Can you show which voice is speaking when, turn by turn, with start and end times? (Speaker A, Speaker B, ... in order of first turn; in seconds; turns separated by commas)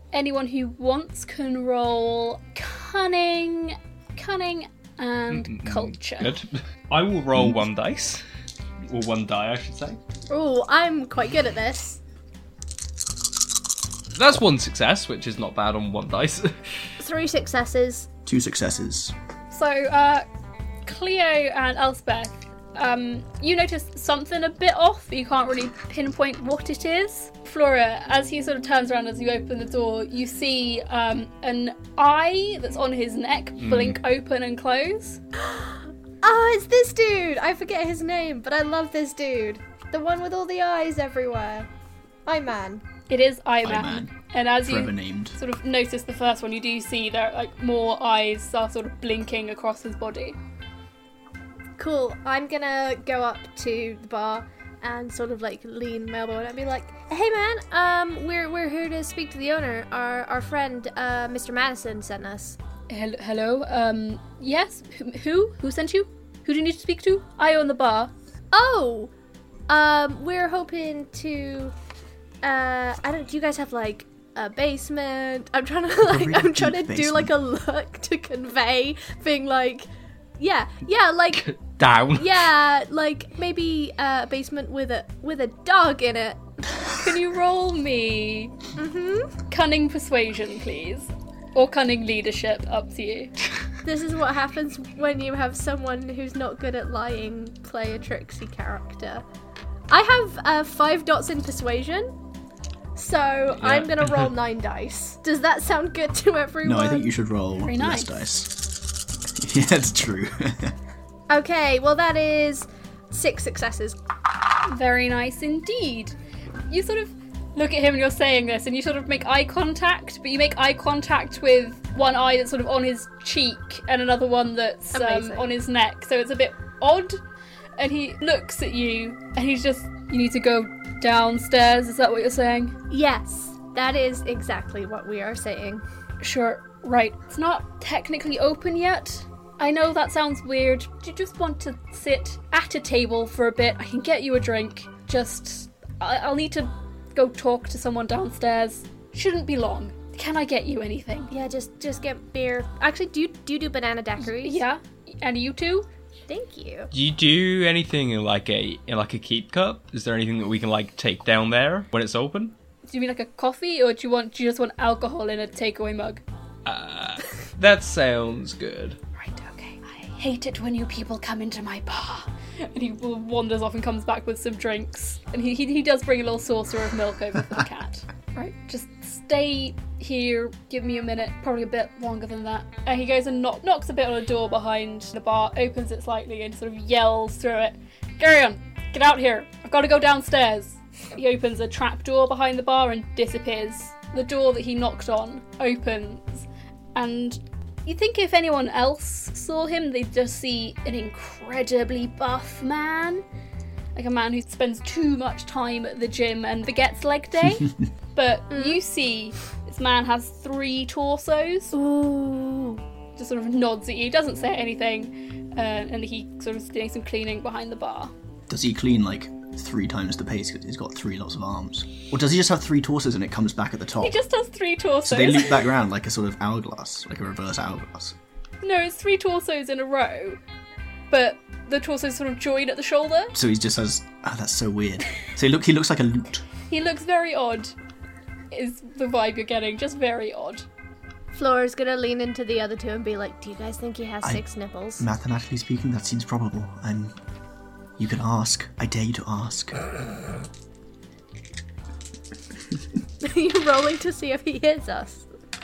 Speaker A: 0.1-6.3, Speaker B: 5.3-8.2, Speaker B: 8.9-10.0, Speaker C: 10.3-12.0, Speaker B: 14.2-16.6, Speaker C: 17.0-18.1, Speaker D: 18.3-19.1, Speaker A: 19.5-20.3, Speaker A: 20.9-35.2, Speaker B: 33.6-34.0, Speaker C: 35.4-41.7, Speaker C: 42.3-42.8, Speaker A: 43.1-50.4, Speaker D: 43.6-45.4, Speaker C: 51.8-62.6, Speaker A: 62.9-68.1, Speaker C: 68.5-69.1, Speaker C: 69.7-71.7, Speaker C: 72.4-81.5, Speaker D: 76.0-77.3, Speaker B: 81.3-82.5, Speaker C: 82.2-86.7, Speaker A: 87.0-88.6, Speaker C: 88.8-89.4, Speaker A: 89.5-93.3, Speaker C: 93.8-99.2, Speaker C: 99.9-102.1, Speaker C: 102.9-107.1, Speaker B: 103.6-104.2, Speaker D: 106.6-110.8, Speaker A: 107.7-108.2, Speaker C: 111.3-114.0, Speaker A: 114.7-116.2, Speaker A: 116.7-127.2, Speaker C: 124.9-125.5, Speaker A: 127.8-132.8, Speaker C: 132.9-135.8, Speaker A: 136.2-151.3, Speaker C: 151.3-154.6, Speaker A: 154.2-155.9, Speaker C: 156.3-156.9, Speaker B: 156.9-162.5, Speaker A: 162.9-166.2, Speaker B: 166.7-169.0, Speaker A: 169.2-203.2, Speaker A: 203.9-211.8, Speaker C: 208.5-208.8, Speaker C: 211.7-212.8, Speaker A: 213.2-218.1, Speaker D: 218.5-224.2, Speaker A: 224.0-225.7, Speaker D: 225.0-228.2, Speaker A: 228.6-230.4, Speaker A: 231.1-233.4, Speaker D: 233.3-236.4, Speaker A: 236.7-237.8, Speaker A: 238.5-240.7, Speaker C: 241.3-245.1, Speaker D: 245.0-247.2, Speaker D: 248.0-249.8, Speaker C: 253.2-255.3